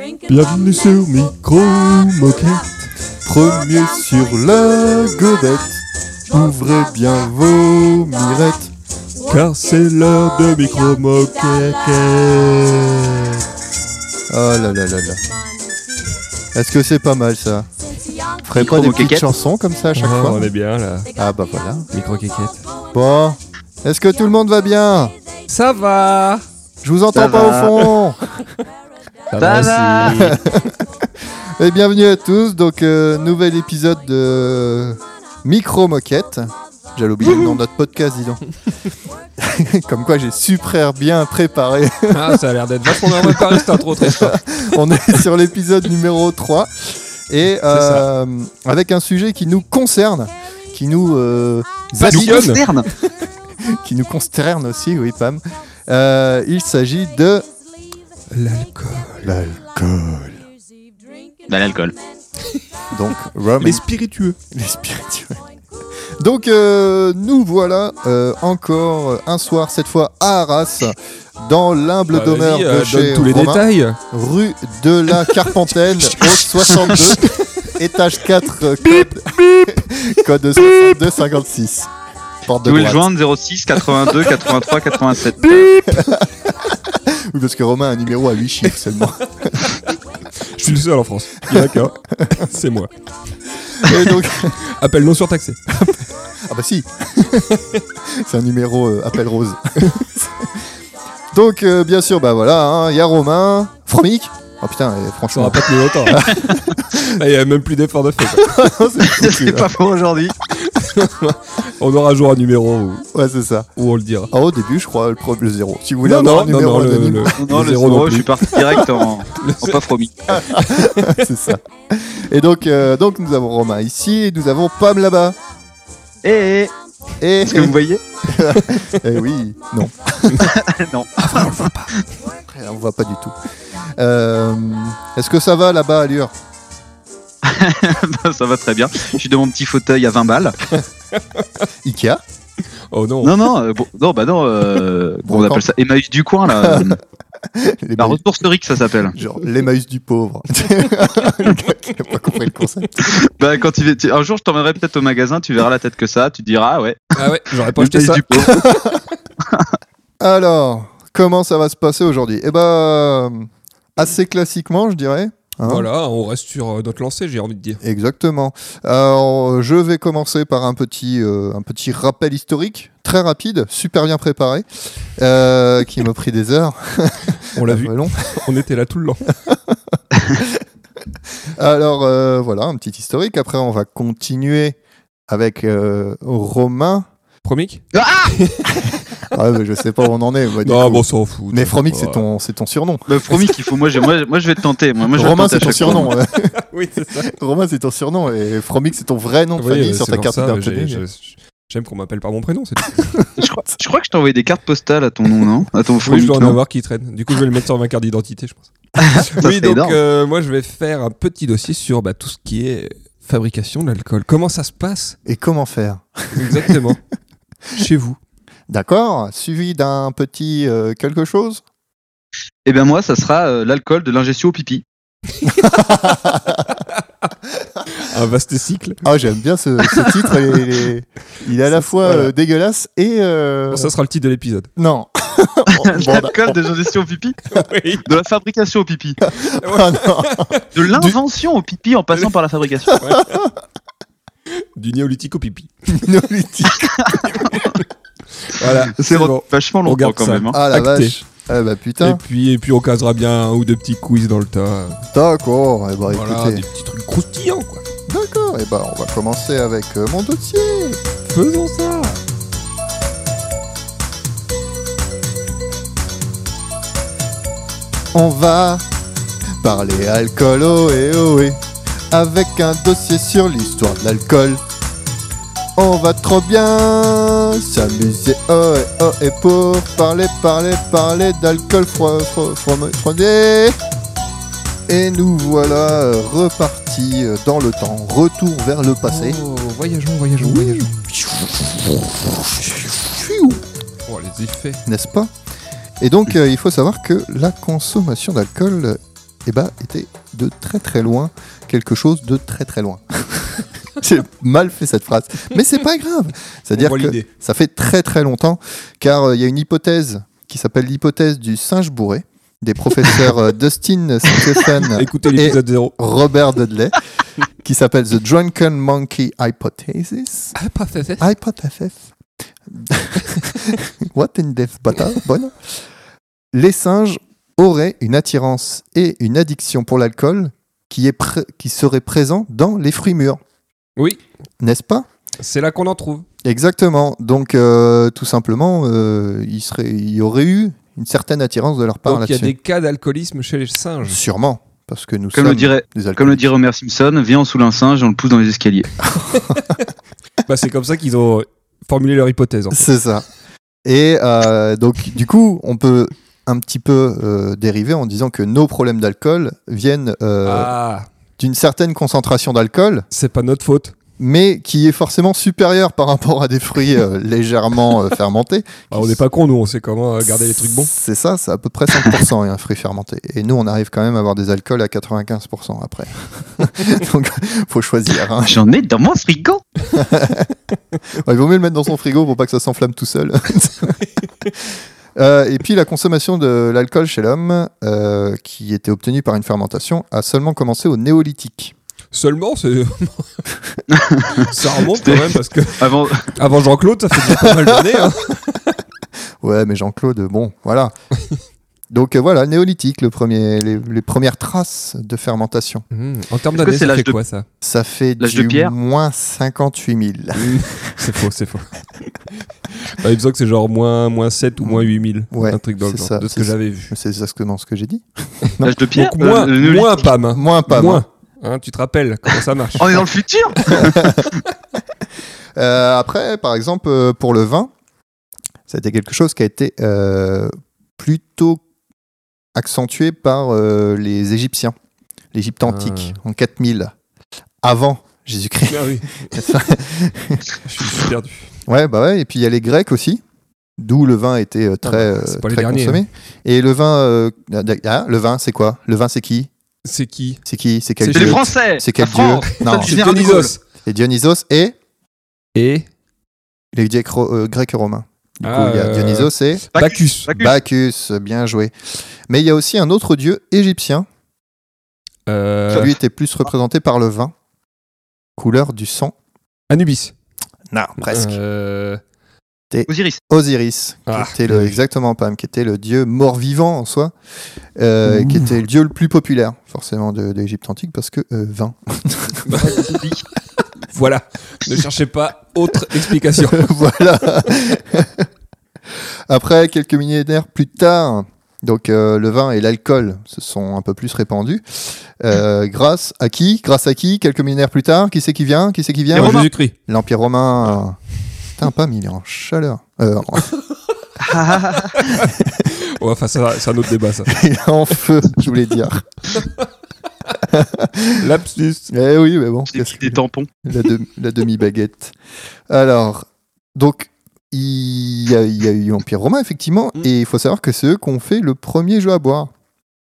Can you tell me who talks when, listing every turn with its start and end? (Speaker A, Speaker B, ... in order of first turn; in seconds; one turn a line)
Speaker A: 0.3-2.9
Speaker B: 3.2-8.7
Speaker A: 9.2-13.3
Speaker B: 14.3-15.2
Speaker B: 16.5-17.7
Speaker B: 18.4-20.5
Speaker C: 18.5-19.3
Speaker A: 20.0-21.1
Speaker B: 21.1-21.9
Speaker A: 21.9-22.7
Speaker B: 22.9-25.2
Speaker A: 25.5-26.5
Speaker B: 26.8-28.2
Speaker C: 27.1-27.8
Speaker A: 29.3-30.4
Speaker C: 29.4-30.3
Speaker B: 29.9-38.4
Speaker B: 39.4-52.5
Speaker A: 42.1-44.4
Speaker A: 47.7-48.1
Speaker A: 52.0-52.6
Speaker C: 52.0-52.9
Speaker B: 53.6-57.5
Speaker A: 58.3-59.4
Speaker B: 59.2-60.4
Speaker C: 61.5-61.9
Speaker B: 62.9-63.8
Speaker A: 63.6-64.4
Speaker B: 64.5-65.4
Speaker B: 66.2-81.9
Speaker A: 72.1-74.0
Speaker A: 75.7-77.8
Speaker B: 82.4-83.1
Speaker C: 82.6-85.9
Speaker B: 85.9-89.8
Speaker A: 90.4-92.9
Speaker B: 91.5-92.5
Speaker B: 93.7-94.6
Speaker A: 93.8-95.6
Speaker B: 95.7-100.7
Speaker B: 101.3-107.2
Speaker A: 105.3-106.3
Speaker A: 107.0-108.7
Speaker B: 108.3-109.7
Speaker C: 109.0-110.3
Speaker A: 110.5-113.1
Speaker B: 113.1-113.7
Speaker A: 113.8-114.3
Speaker B: 114.3-117.6
Speaker A: 116.0-118.5
Speaker C: 117.3-120.4
Speaker B: 118.5-118.9
Speaker A: 119.3-119.8
Speaker B: 120.3-125.4
Speaker A: 120.5-121.3
Speaker C: 126.2-126.7
Speaker B: 127.2-127.8
Speaker C: 127.5-128.0
Speaker B: 128.3-130.6
Speaker C: 130.4-131.3
Speaker B: 131.2-131.9
Speaker B: 132.5-133.3
Speaker B: 134.0-136.3
Speaker C: 137.4-140.6
Speaker A: 141.1-141.5
Speaker B: 141.8-142.2
Speaker A: 142.9-143.4
Speaker C: 143.2-147.0
Speaker B: 145.2-145.6
Speaker B: 146.5-147.0
Speaker B: 147.5-148.2
Speaker C: 148.0-149.2
Speaker B: 149.1-153.2
Speaker C: 153.0-157.2
Speaker A: 157.2-158.6
Speaker C: 157.8-158.7
Speaker B: 158.5-159.0
Speaker B: 160.2-165.9
Speaker A: 165.6-167.8
Speaker B: 167.8-178.5
Speaker A: 177.5-179.3
Speaker B: 179.5-179.8
Speaker B: 181.5-187.1
Speaker A: 187.4-188.7
Speaker C: 187.9-188.3
Speaker B: 188.7-193.3
Speaker A: 190.6-192.2
Speaker C: 193.1-196.1
Speaker B: 195.1-196.5
Speaker A: 196.6-197.3
Speaker B: 197.1-201.0
Speaker A: 199.6-203.2
Speaker C: 203.4-206.6
Speaker A: 206.1-215.2
Speaker C: 209.0-210.0
Speaker B: 215.3-216.8
Speaker A: 216.3-217.0
Speaker A: 217.7-218.2
Speaker B: 218.7-221.6
Speaker C: 222.7-224.8
Speaker B: 225.5-226.8
Speaker A: 226.7-227.0
Speaker A: 227.9-229.0
Speaker B: 229.0-233.9
Speaker A: 229.8-230.6
Speaker A: 231.7-232.3
Speaker A: 233.7-234.7
Speaker B: 234.8-236.6
Speaker C: 235.7-237.4
Speaker A: 237.5-238.1
Speaker C: 238.1-239.2
Speaker B: 239.2-241.2
Speaker A: 239.6-240.7
Speaker C: 240.8-243.0
Speaker A: 242.9-243.5
Speaker B: 242.9-243.5
Speaker A: 244.6-245.7
Speaker B: 245.9-247.5
Speaker C: 246.8-247.3
Speaker A: 247.3-247.8
Speaker A: 248.4-251.2
Speaker C: 248.9-250.6
Speaker B: 250.5-252.2
Speaker A: 252.0-255.0
Speaker B: 255.1-256.6
Speaker A: 256.1-257.8
Speaker B: 258.1-261.0
Speaker A: 261.3-262.2
Speaker B: 268.1-268.9
Speaker B: 269.6-271.6
Speaker B: 272.1-274.6
Speaker B: 275.8-283.8
Speaker B: 284.9-289.4
Speaker A: 289.1-291.1
Speaker B: 290.4-293.6
Speaker A: 294.1-294.8
Speaker B: 294.9-295.3
Speaker B: 296.0-317.0
Speaker A: 306.8-307.3
Speaker A: 314.4-315.9
Speaker B: 317.6-320.6
Speaker A: 320.6-321.3
Speaker B: 321.2-322.1
Speaker B: 322.7-325.7
Speaker B: 326.5-333.4
Speaker A: 334.0-334.2
Speaker B: 334.6-335.1
Speaker A: 335.4-336.3
Speaker B: 336.4-342.5
Speaker A: 342.1-344.2
Speaker B: 344.0-346.4
Speaker C: 345.3-348.9
Speaker B: 349.0-349.8
Speaker A: 349.4-349.8
Speaker A: 350.4-352.9
Speaker B: 352.7-353.3
Speaker B: 353.9-360.7
Speaker A: 360.4-361.1
Speaker B: 361.4-363.1
Speaker A: 363.1-364.0
Speaker B: 364.2-369.2
Speaker A: 368.9-370.9
Speaker B: 370.9-378.7
Speaker C: 378.4-379.6
Speaker B: 379.9-391.7
Speaker A: 392.1-393.4
Speaker C: 393.9-396.3
Speaker A: 394.4-398.8
Speaker B: 397.2-398.1
Speaker B: 399.4-400.9
Speaker B: 401.9-405.9
Speaker A: 405.9-407.5
Speaker C: 406.6-407.1
Speaker B: 407.6-411.0
Speaker C: 408.2-408.7
Speaker A: 410.4-416.9
Speaker B: 414.6-418.8
Speaker C: 418.6-420.1
Speaker A: 418.9-423.0
Speaker B: 420.3-421.0
Speaker C: 422.8-424.2
Speaker B: 423.7-424.3
Speaker B: 425.6-427.7
Speaker B: 428.7-431.6
Speaker B: 432.6-434.8
Speaker B: 435.3-436.9
Speaker A: 435.7-436.2
Speaker B: 437.6-440.5
Speaker A: 438.7-439.5
Speaker A: 440.6-441.5
Speaker B: 441.7-443.2
Speaker B: 443.8-449.5
Speaker A: 444.8-446.1
Speaker A: 449.9-450.4
Speaker B: 450.5-453.1
Speaker A: 451.0-451.5
Speaker C: 451.1-453.6
Speaker A: 452.5-453.6
Speaker B: 453.8-454.8
Speaker A: 455.6-455.9
Speaker B: 456.7-459.7
Speaker A: 458.4-460.3
Speaker C: 459.8-460.6
Speaker B: 460.3-461.8
Speaker B: 462.3-464.1
Speaker A: 465.3-466.0
Speaker B: 465.7-467.3
Speaker B: 468.4-469.1
Speaker A: 469.7-470.1
Speaker B: 470.7-471.4
Speaker A: 471.0-472.0
Speaker B: 472.7-477.1
Speaker C: 472.9-473.2
Speaker A: 474.1-474.8
Speaker B: 477.8-482.8
Speaker A: 478.1-478.5
Speaker A: 482.5-482.9
Speaker C: 482.6-483.2
Speaker A: 483.6-486.7
Speaker B: 485.9-488.3
Speaker B: 489.3-503.6
Speaker A: 499.1-499.8
Speaker C: 499.1-499.4
Speaker C: 504.2-505.2
Speaker A: 504.9-507.3
Speaker B: 505.4-505.6
Speaker B: 507.3-509.1
Speaker A: 509.4-509.7
Speaker B: 510.4-511.2
Speaker A: 511.2-511.9
Speaker B: 511.9-515.1
Speaker C: 512.7-513.5
Speaker B: 515.7-522.5